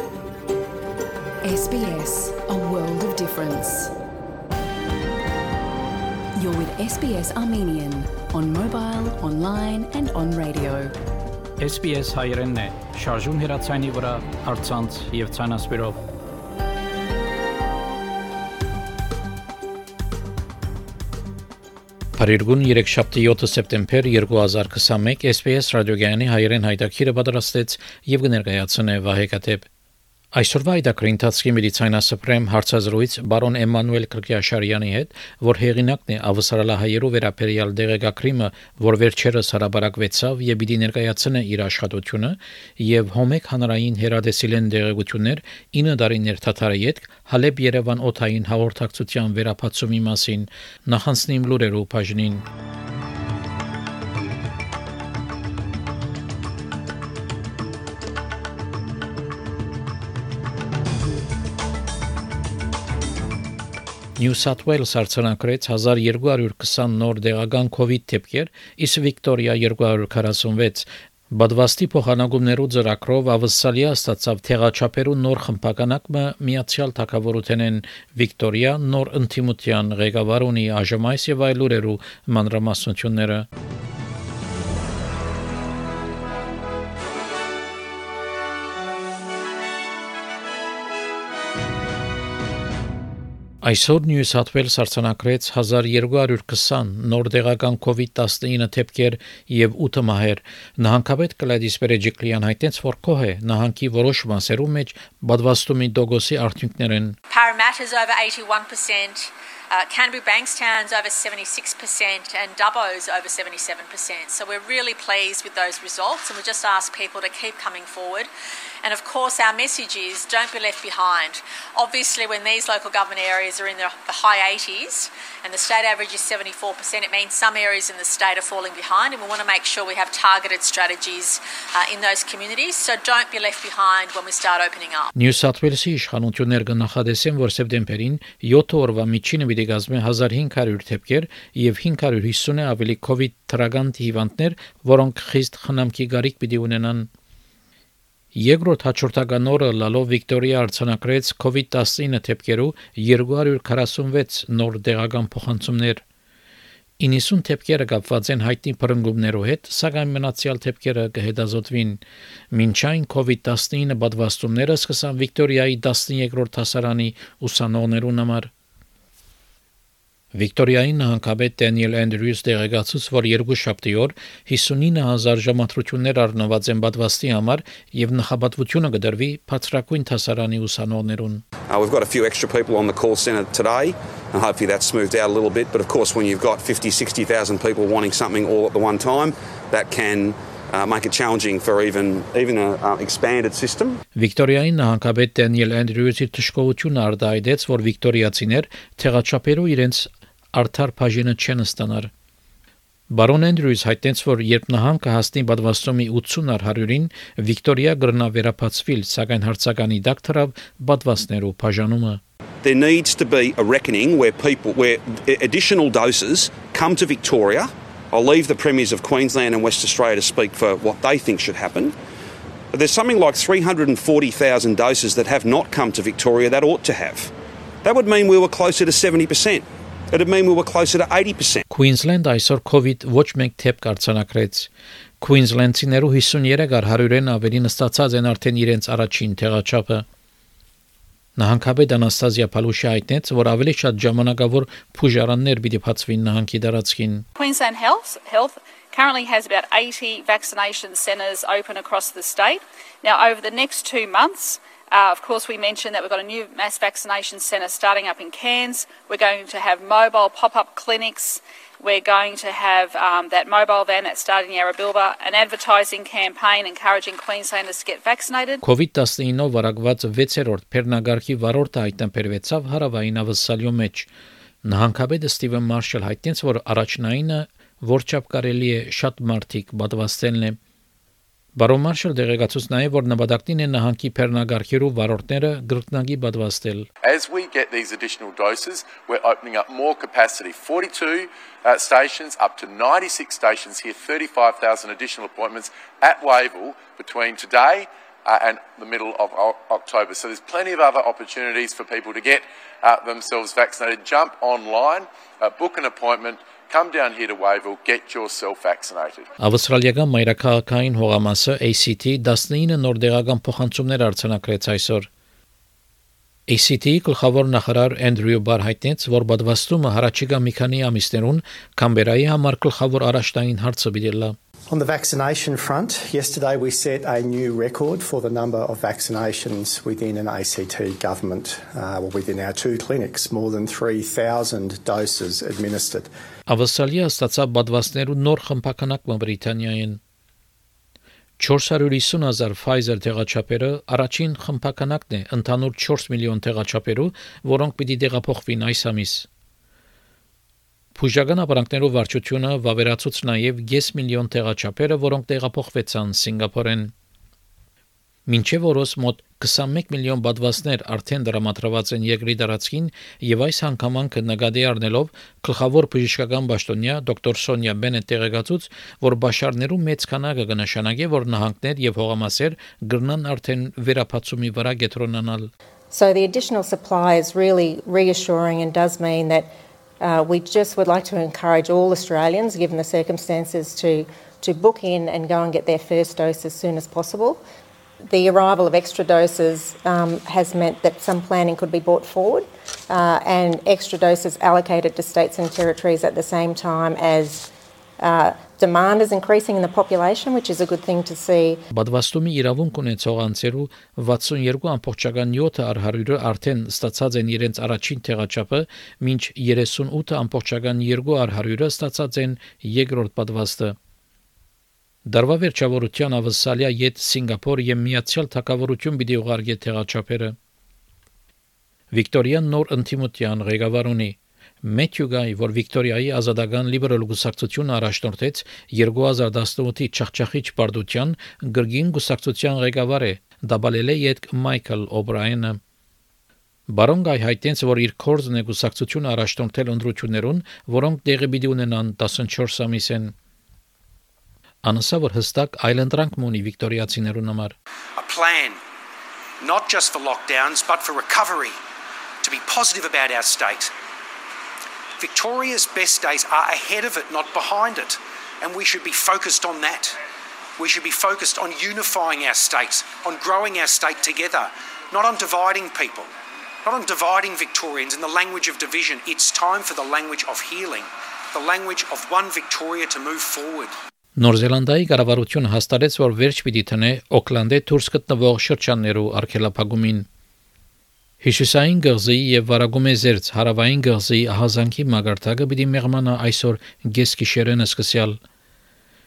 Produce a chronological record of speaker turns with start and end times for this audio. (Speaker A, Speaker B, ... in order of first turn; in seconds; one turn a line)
Speaker A: 1.4-3.9
Speaker A: 6.3-10.9
Speaker B: 11.6-16.0
Speaker B: 22.2-29.6
Speaker B: 30.3-52.4
Speaker B: 64.2-83.5
Speaker B: 93.6-107.2
Speaker C: 107.3-118.3
Speaker C: 118.8-135.1
Speaker B: 135.1-147.1
Speaker B: 148.3-156.0
Speaker B: 157.0-168.5
Speaker B: 170.3-181.4
Speaker D: 181.7-194.0
Speaker B: 194.2-202.1
Speaker B: 203.1-212.2
Speaker D: 212.6-221.9
Speaker D: 222.7-227.3
Speaker D: 227.8-231.6
Speaker B: 231.7-234.7
Speaker B: 235.2-240.1
Speaker B: 241.4-247.2
Speaker E: 247.4-268.6
Speaker B: 268.6-274.1
Speaker B: 274.6-280.6
Speaker B: 281.6-286.9
Speaker F: 287.1-309.3
Speaker B: 309.4-315.1
Speaker B: 316.5-324.4
Speaker G: 324.7-336.1
Speaker B: 336.5-340.0
Speaker B: 341.4-349.3
Speaker B: 351.0-356.9
Speaker B: 358.3-375.5
Speaker H: 375.9-387.4
Speaker H: 388.1-397.5
Speaker H: 398.0-401.6
Speaker B: 401.7-413.8
Speaker B: 415.1-420.4
Speaker B: 421.9-435.6
Speaker B: 436.7-443.1
Speaker B: 444.6-447.6
Speaker I: 448.0-448.6
Speaker I: 449.4-451.6
Speaker I: 452.2-453.7
Speaker I: 455.0-460.0
Speaker I: 460.6-466.1
Speaker I: 466.6-473.8
Speaker B: 474.2-480.1
Speaker B: 481.2-488.2